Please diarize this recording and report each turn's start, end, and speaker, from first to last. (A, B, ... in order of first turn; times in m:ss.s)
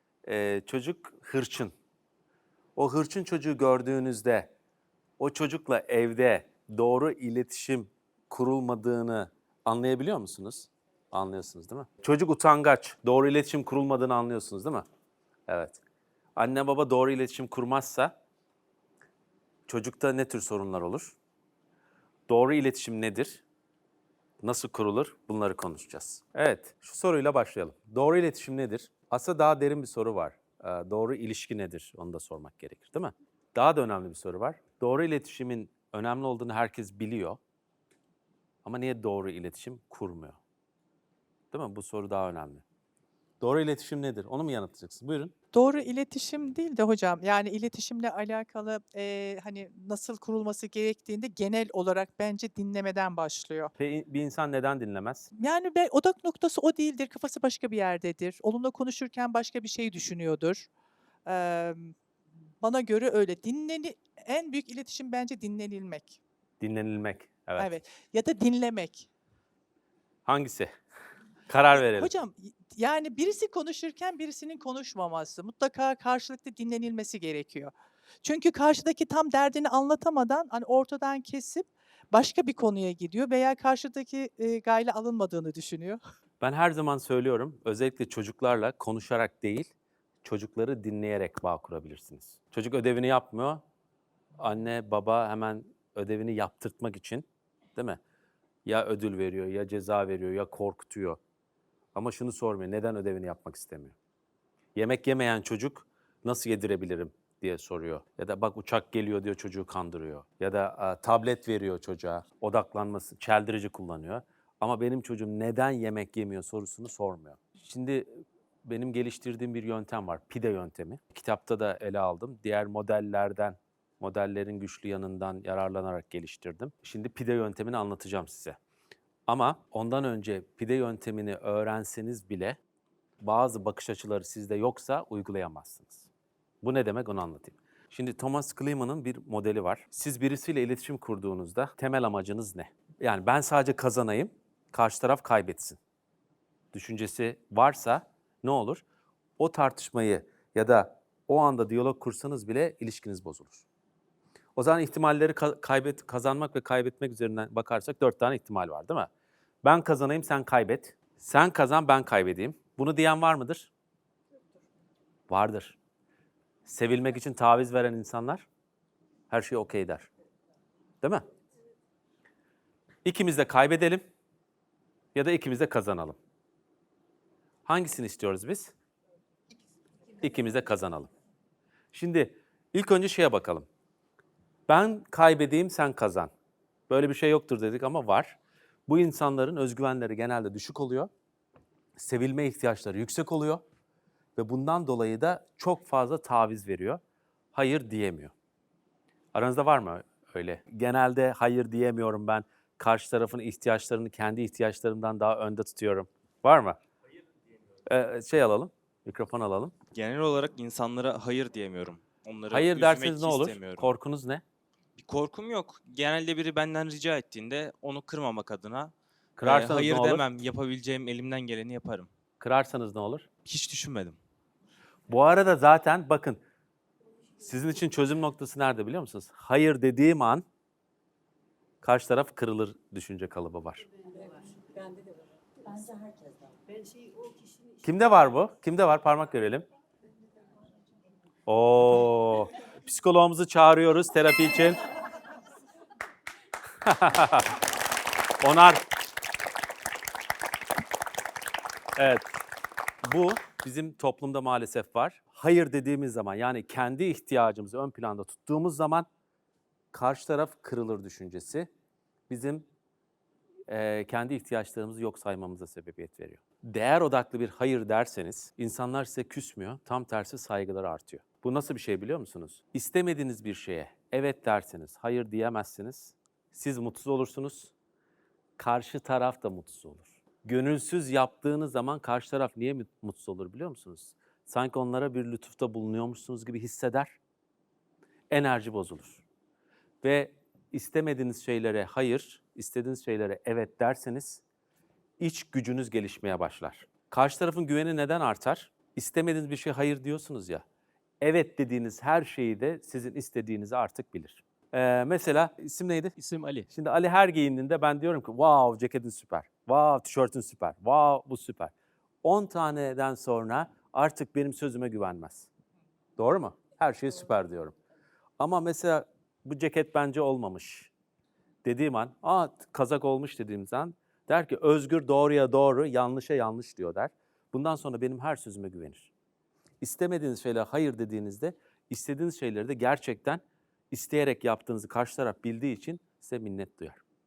0:00.3-0:01.7 A
0:02.8-0:04.5 A
0:05.2-0:14.8 A
0:15.5-0:15.8 A
0:16.4-0:18.1 A
0:19.7-0:21.2 A
0:22.3-0:23.4 A
0:24.4-0:37.4 A
0:38.6-0:40.4 A
0:41.5-0:42.6 A
0:43.4-0:45.3 A
0:45.5-0:53.7 B
0:53.8-0:55.3 A
0:55.4-1:00.7 B
1:01.3-1:01.9 B
1:02.6-1:06.2 B
1:06.6-1:07.7 A
1:07.6-1:09.1 B
1:10.3-1:10.7 A
1:11.5-1:12.1 A
1:11.7-1:17.7 B
1:18.2-1:26.0 B
1:26.4-1:29.7 A
1:30.2-1:33.6 A
1:34.4-1:38.0 A
1:38.7-1:41.2 A
1:42.0-1:44.0 A
1:44.8-2:08.6 A
2:09.3-2:12.6 A
2:13.2-2:16.1 A
2:16.6-2:25.8 A
2:26.7-2:28.8 A
2:29.4-2:33.6 A
2:34.6-2:39.1 A
2:39.6-2:43.7 A
2:45.3-2:45.8 A
2:46.7-2:48.5 A
2:49.3-2:50.1 A
2:53.0-2:54.0 A
2:55.2-2:56.2 A
2:57.7-2:58.7 A
3:00.2-3:01.1 A
3:01.9-3:03.7 A
3:04.7-3:06.3 A
3:06.9-3:08.4 A
3:08.9-3:11.1 A
3:12.0-3:13.6 A
3:14.4-3:17.0 A
3:17.5-3:18.3 A
3:19.3-3:26.8 A
3:27.9-3:29.7 A
3:29.9-3:33.9 C
3:32.5-3:34.4 A
3:35.0-3:42.1 C
3:39.4-3:40.2 A
3:42.4-3:43.3 A
3:43.4-3:44.2 C
3:45.1-3:46.4 A
3:47.4-3:50.4 A
3:51.8-3:53.8 A
3:57.8-3:59.6 A
4:01.5-4:04.8 A
4:06.8-4:07.5 A
4:08.4-4:08.8 A
4:12.0-4:12.3 A
4:13.0-4:19.1 A
4:19.9-4:21.7 A
4:22.3-4:22.6 A
4:23.7-4:37.7 A
4:38.6-4:47.2 A
4:48.3-4:49.2 A
4:50.0-4:54.4 A
4:55.2-5:00.6 A
5:01.2-5:06.2 A
5:06.2-5:06.7 C
5:06.7-5:11.7 A
5:12.2-5:15.5 A
5:16.2-5:17.8 A
5:18.4-5:20.9 A
5:21.6-5:29.1 A
5:29.8-5:37.0 A